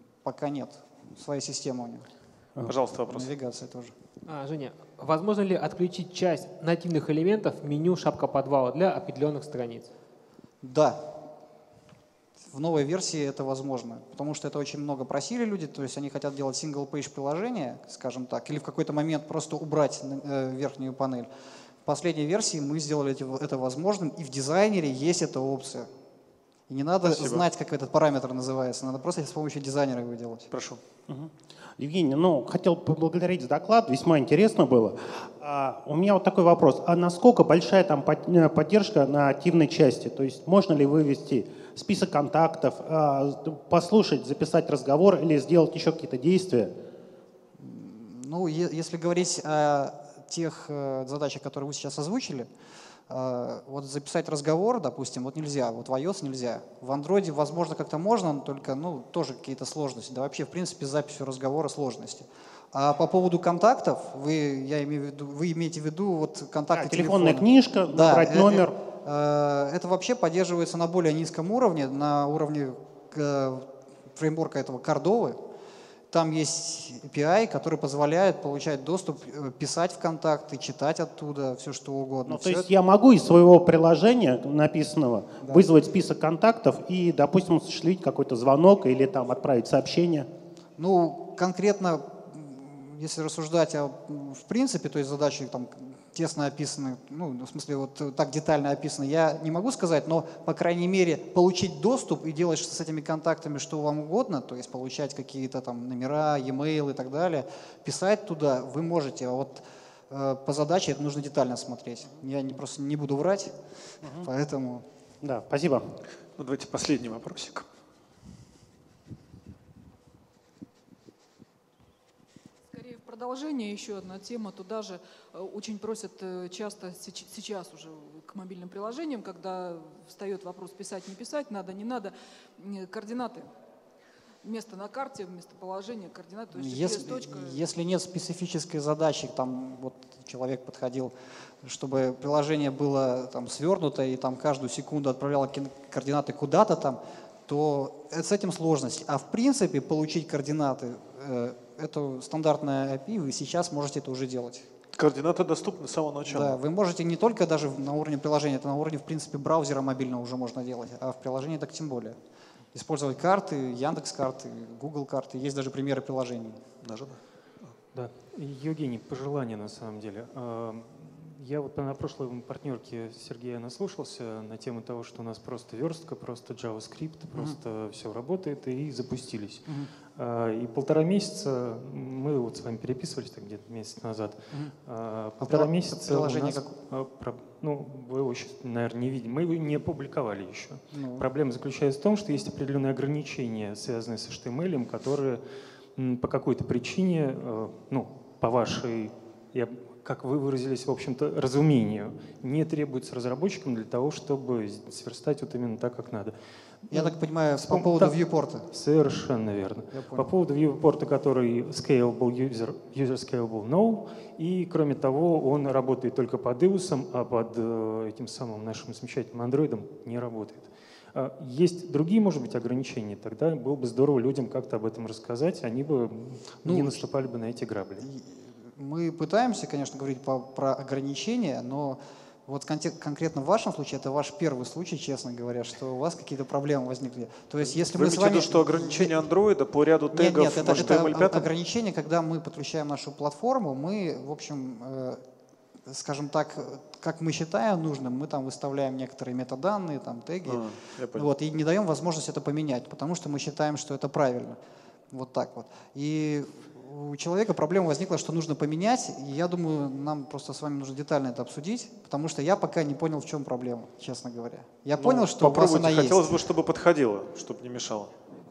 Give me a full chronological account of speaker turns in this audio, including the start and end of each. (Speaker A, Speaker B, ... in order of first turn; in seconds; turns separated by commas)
Speaker A: 0.2-2.1, Speaker B: 2.6-3.3, Speaker A: 3.1-3.9, Speaker C: 4.2-9.9, Speaker A: 10.6-11.1, Speaker A: 12.5-21.3, Speaker A: 21.8-25.9, Speaker A: 26.7-30.5, Speaker B: 27.0-27.4, Speaker B: 30.5-30.8, Speaker D: 31.1-46.7, Speaker A: 47.6-52.5, Speaker A: 53.1-75.4, Speaker D: 66.7-68.8, Speaker A: 76.1-82.7, Speaker D: 82.2-90.3, Speaker A: 90.8-113.5, Speaker D: 114.0-114.3, Speaker A: 114.1-114.8, Speaker D: 115.2-116.0, Speaker B: 116.4-117.7, Speaker E: 122.7-133.5, Speaker E: 134.4-137.6, Speaker A: 136.5-154.6, Speaker B: 154.9-156.6, Speaker A: 156.3-162.2, Speaker A: 162.7-166.6, Speaker B: 166.8-167.7, Speaker F: 167.9-195.4, Speaker A: 179.7-179.9, Speaker A: 185.4-186.7, Speaker A: 190.9-191.3, Speaker F: 195.9-228.1, Speaker A: 206.9-208.7, Speaker A: 209.9-210.3, Speaker A: 226.6-227.0, Speaker A: 228.0-239.2, Speaker B: 237.7-241.5, Speaker A: 240.1-245.2, Speaker A: 245.9-254.6, Speaker B: 250.4-251.3, Speaker A: 255.1-266.3, Speaker B: 265.0-268.1